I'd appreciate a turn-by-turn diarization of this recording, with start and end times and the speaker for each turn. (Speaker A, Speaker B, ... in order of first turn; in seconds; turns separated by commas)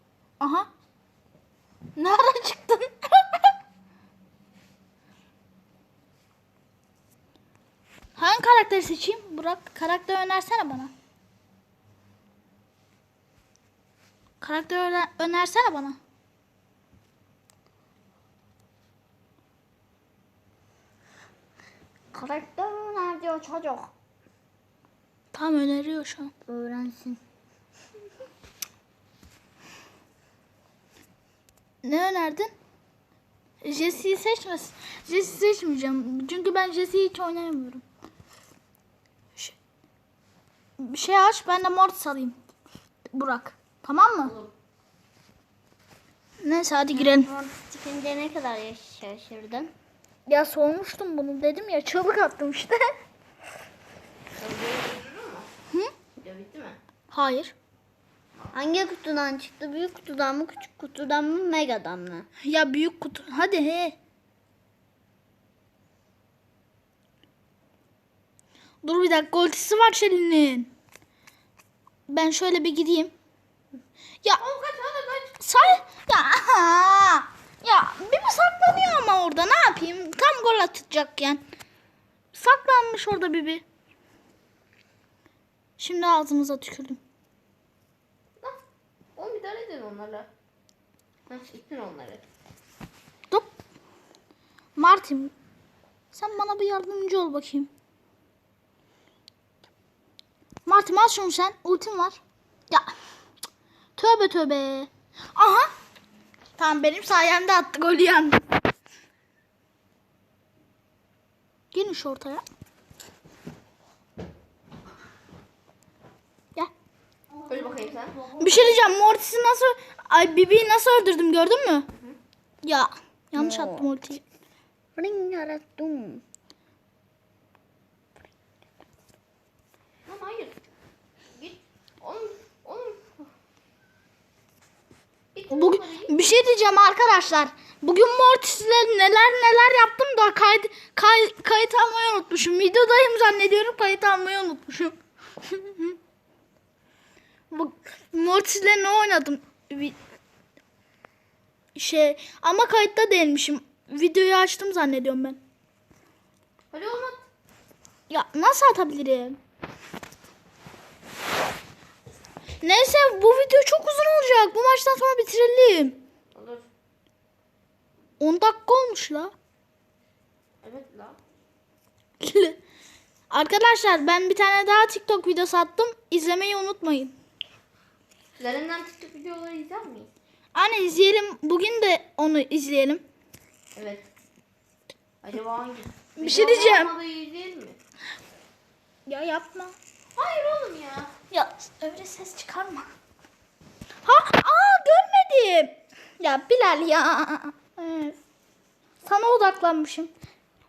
Speaker A: 0.4-0.7, Speaker A: 1.9-3.4, Speaker A: 8.2-10.9, Speaker A: 14.4-16.0, Speaker B: 22.1-23.9, Speaker A: 25.3-26.3, Speaker B: 26.5-27.2, Speaker A: 31.8-32.5, Speaker A: 33.6-37.8, Speaker A: 40.8-42.4, Speaker A: 43.1-44.3, Speaker C: 44.2-44.5, Speaker A: 46.4-47.3, Speaker B: 46.9-49.7, Speaker A: 50.3-52.8, Speaker C: 54.4-55.5, Speaker C: 56.2-56.8, Speaker A: 57.1-57.5, Speaker B: 58.5-62.2, Speaker A: 62.4-63.9, Speaker A: 68.8-70.7, Speaker A: 72.1-73.1, Speaker C: 74.4-75.5, Speaker A: 75.4-81.4, Speaker A: 82.3-83.6, Speaker A: 85.8-87.0, Speaker C: 89.2-90.3, Speaker C: 91.3-92.2, Speaker A: 94.8-95.3, Speaker A: 96.1-97.7, Speaker A: 100.7-102.9, Speaker A: 104.0-105.7, Speaker A: 106.6-108.4, Speaker A: 111.7-112.4, Speaker B: 117.4-118.8, Speaker C: 117.5-118.2, Speaker A: 118.4-121.9, Speaker A: 122.6-124.2, Speaker B: 123.3-123.9, Speaker B: 125.0-126.2, Speaker C: 130.1-130.6, Speaker C: 131.3-133.2, Speaker C: 135.3-136.1, Speaker A: 135.5-145.9, Speaker A: 147.5-149.9, Speaker A: 151.7-155.4, Speaker C: 156.7-157.2, Speaker A: 158.1-159.4, Speaker A: 162.6-166.0, Speaker C: 166.3-166.6, Speaker A: 168.2-169.3, Speaker C: 170.6-171.2, Speaker A: 172.2-172.6, Speaker A: 173.3-177.1, Speaker C: 178.4-180.1, Speaker A: 180.5-183.0, Speaker C: 183.8-184.1, Speaker C: 185.2-187.8, Speaker A: 186.2-186.9, Speaker A: 189.1-189.7, Speaker C: 190.2-191.1, Speaker A: 191.3-192.9, Speaker A: 194.0-198.2, Speaker A: 199.0-200.1